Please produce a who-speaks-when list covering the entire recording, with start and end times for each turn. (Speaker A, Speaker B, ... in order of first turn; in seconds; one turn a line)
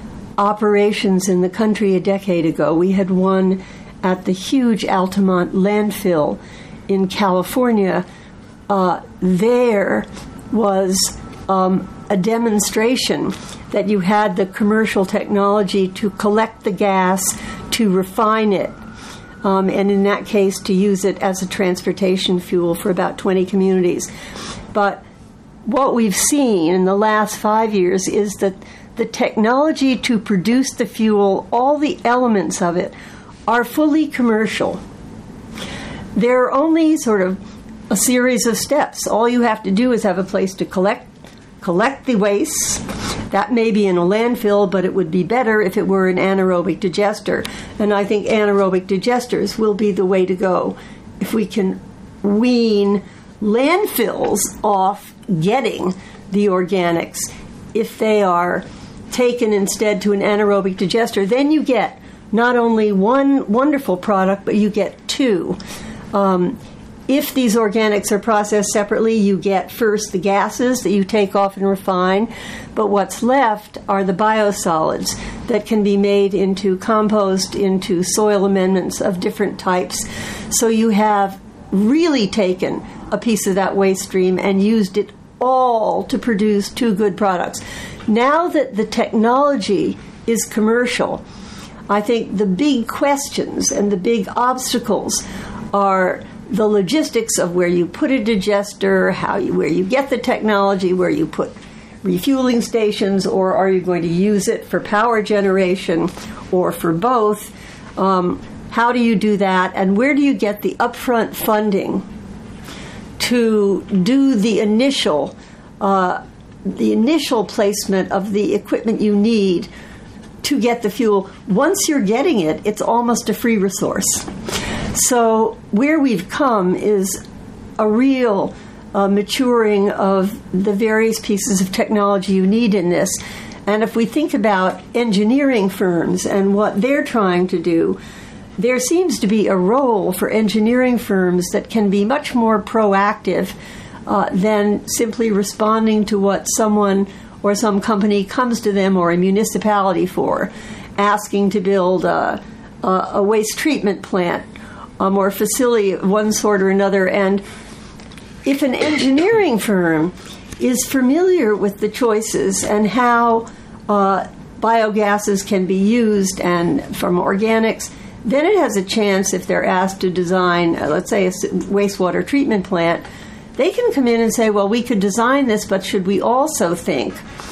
Speaker A: 0.4-8.0
Speaker A: 8.7-18.7
Speaker A: 19.4-24.1
Speaker A: 24.7-25.0
Speaker A: 25.6-32.9
Speaker A: 33.5-34.8
Speaker A: 36.1-37.4
Speaker A: 37.9-65.6
Speaker A: 66.1-91.2
Speaker A: 91.9-112.0
Speaker A: 113.2-119.7
Speaker A: 120.4-124.3
Speaker A: 124.9-127.2
Speaker A: 127.8-138.0
Speaker A: 138.6-154.4
Speaker A: 155.0-157.4
Speaker A: 158.4-173.0
Speaker A: 173.6-177.2